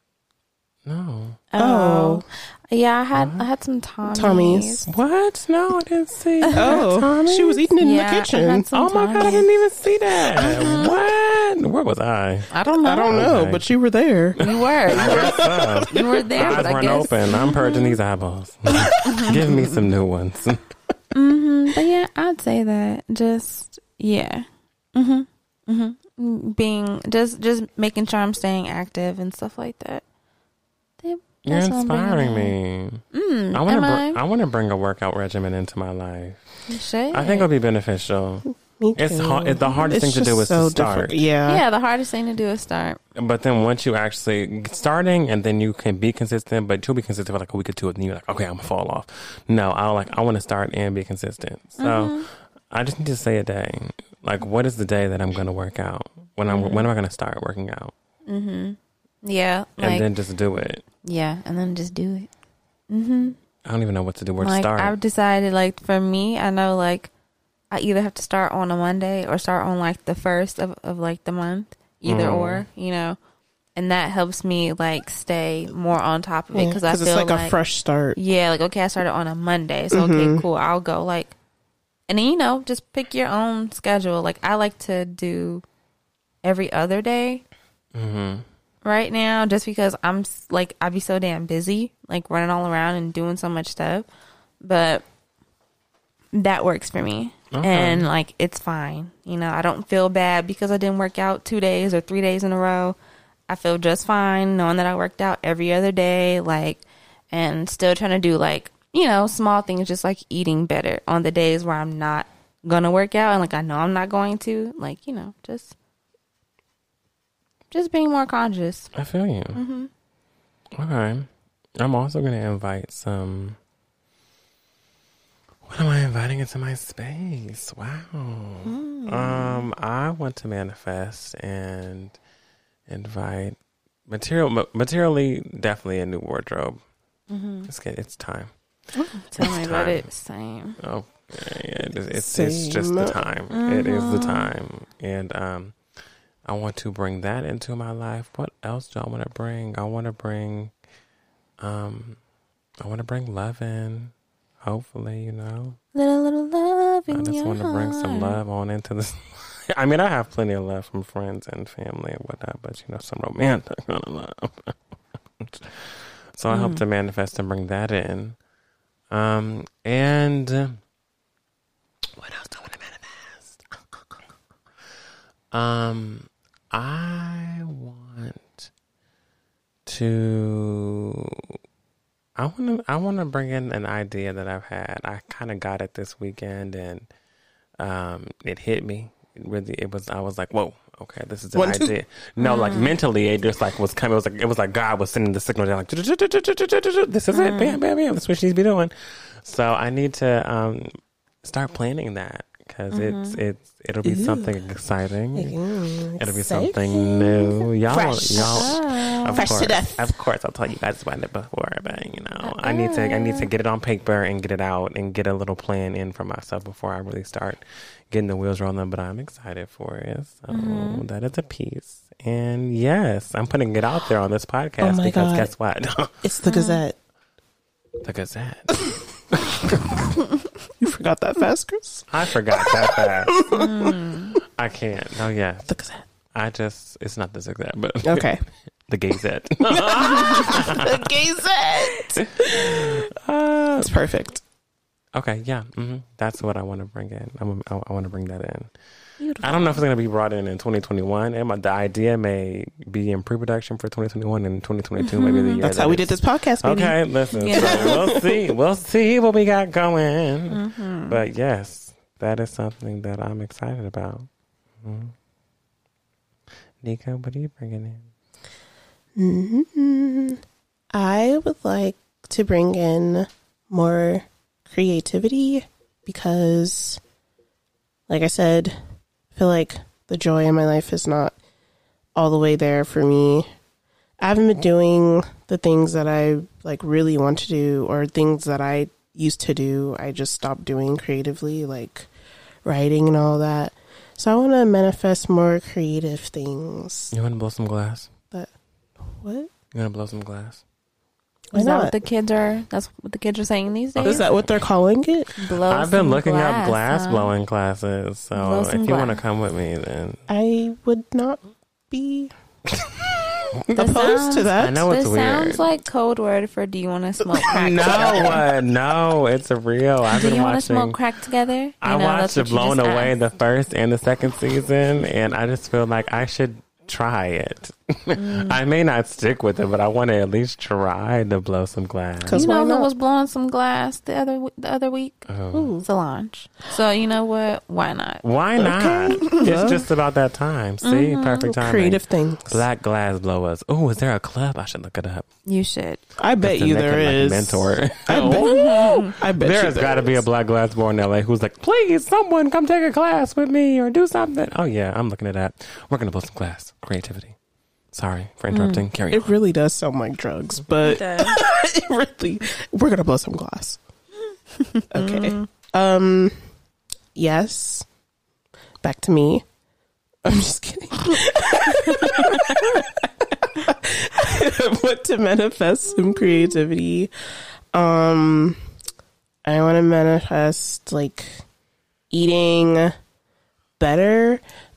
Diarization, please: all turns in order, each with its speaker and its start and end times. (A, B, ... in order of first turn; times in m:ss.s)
0:00.8-0:01.4 A
0:01.5-0:04.9 B
0:01.6-0:02.2 C
0:03.1-0:03.4 A
0:04.0-0:04.9 C
0:04.9-0:07.7 A
0:06.5-0:06.8 B
0:06.5-0:08.6 C
0:07.8-0:09.4 B
0:08.7-0:12.5 A
0:10.4-0:10.9 B
0:12.5-0:13.1 B
0:12.8-0:16.7 C
0:13.1-0:13.6 A
0:14.4-0:17.9 B
0:14.4-0:20.7 A
0:19.0-0:19.3 B
0:21.1-0:30.0 B
0:31.0-0:32.5 B
0:31.4-0:41.2 A
0:33.1-0:34.2 B
0:36.7-0:37.5 B
0:38.8-0:41.6 C
0:41.5-0:43.0 B
0:43.1-0:57.9 A
0:51.8-0:52.3 B
0:56.5-0:56.9 B
0:58.3-1:00.0 B
0:59.8-1:00.8 A
1:01.0-1:02.3 B
1:02.9-1:03.4 B
1:03.6-1:04.9 A
1:04.4-1:07.1 B
1:07.7-1:13.2 B
1:12.0-1:12.6 A
1:13.8-1:17.5 B
1:16.5-1:18.2 C
1:18.1-1:21.3 B
1:19.9-1:20.4 C
1:22.1-1:25.6 B
1:26.4-1:27.4 B
1:27.9-1:28.4 A
1:28.8-1:34.1 B
1:34.6-1:35.0 B
1:36.3-1:43.0 B
1:37.5-1:38.1 A
1:43.5-1:55.7 B
1:57.7-1:58.9 B
1:58.9-1:59.6 A
1:59.5-1:59.9 B
2:00.8-2:03.6 A
2:05.6-2:12.2 A
2:08.6-2:09.7 B
2:12.9-2:13.6 A
2:14.1-2:16.8 A
2:17.3-2:17.7 B
2:17.7-2:18.5 A
2:19.0-2:20.8 B
2:19.4-2:20.0 A
2:20.8-2:25.8 A
2:22.1-2:23.2 C
2:23.5-2:24.5 B
2:26.4-2:30.7 A
2:31.6-2:32.2 A
2:32.8-2:35.8 A
2:35.9-2:38.4 B
2:37.1-2:44.8 A
2:45.4-2:48.4 A
2:46.5-2:46.8 B
2:49.1-2:50.8 A
2:52.2-2:54.0 A
2:55.5-2:58.7 A
2:59.8-3:01.5 A
3:02.4-3:07.1 A
3:07.8-3:25.6 A
3:11.5-3:11.9 C
3:12.4-3:12.9 B
3:17.3-3:17.8 B
3:22.9-3:23.4 B
3:24.0-3:24.5 C
3:25.3-3:30.1 C
3:26.2-3:46.2 A
3:28.4-3:29.5 B
3:32.4-3:33.5 B
3:40.5-3:41.0 B
3:44.8-3:45.5 C
3:46.2-3:47.0 C
3:46.4-3:46.8 B
3:48.0-3:49.8 A
3:50.8-3:53.8 C
3:52.1-3:53.4 A
3:53.5-3:54.3 B
3:54.6-4:01.1 A
3:55.7-3:56.0 C
3:58.0-3:58.4 C
3:59.7-4:03.0 C
4:02.2-4:03.9 A
4:03.8-4:04.4 C
4:05.1-4:08.7 A
4:09.2-4:09.8 B
4:09.4-4:24.3 A
4:15.0-4:15.6 B
4:15.6-4:18.5 C
4:17.3-4:18.0 B
4:20.5-4:21.2 B
4:24.8-4:25.1 A
4:26.8-4:28.1 A
4:29.2-4:30.4 C
4:30.9-4:37.0 C
4:38.1-4:38.8 C
4:39.3-4:41.4 C
4:42.1-4:43.4 C
4:44.2-4:52.1 C
4:52.6-4:57.1 C
4:57.1-4:58.1 A
4:59.1-4:59.5 C
4:59.7-5:00.6 A
5:01.5-5:02.0 C
5:01.5-5:04.2 B
5:04.0-5:04.6 A
5:04.0-5:05.3 C
5:05.4-5:07.3 B
5:05.7-5:10.2 A
5:08.4-5:09.2 B
5:10.3-5:12.3 C
5:13.7-5:14.8 C
5:13.8-5:18.4 B
5:14.0-5:15.7 A
5:17.5-5:21.0 A
5:17.7-5:18.4 C
5:20.1-5:23.1 B
5:21.8-5:32.5 A
5:28.1-5:28.6 B
5:32.2-5:32.9 C
5:32.3-5:35.2 B
5:35.3-5:35.7 A
5:35.5-5:35.8 C
5:35.8-5:38.2 B
5:38.2-5:45.3 A
5:38.6-5:39.8 C
5:40.8-5:41.4 B
5:41.4-5:42.6 C
5:45.4-5:46.0 B
5:46.2-5:50.2 C
5:46.4-5:57.3 A
5:48.4-5:49.1 B
5:57.9-5:59.3 A
5:58.5-5:58.8 B
5:59.1-6:03.8 C
6:00.8-6:01.4 B
6:04.6-6:05.5 B
6:04.9-6:06.4 C
6:07.1-6:07.8 C
6:08.8-6:09.4 C
6:10.2-6:17.1 C
6:17.7-6:18.6 C
6:19.4-6:21.4 C
6:22.1-6:22.9 C
6:23.8-6:24.4 C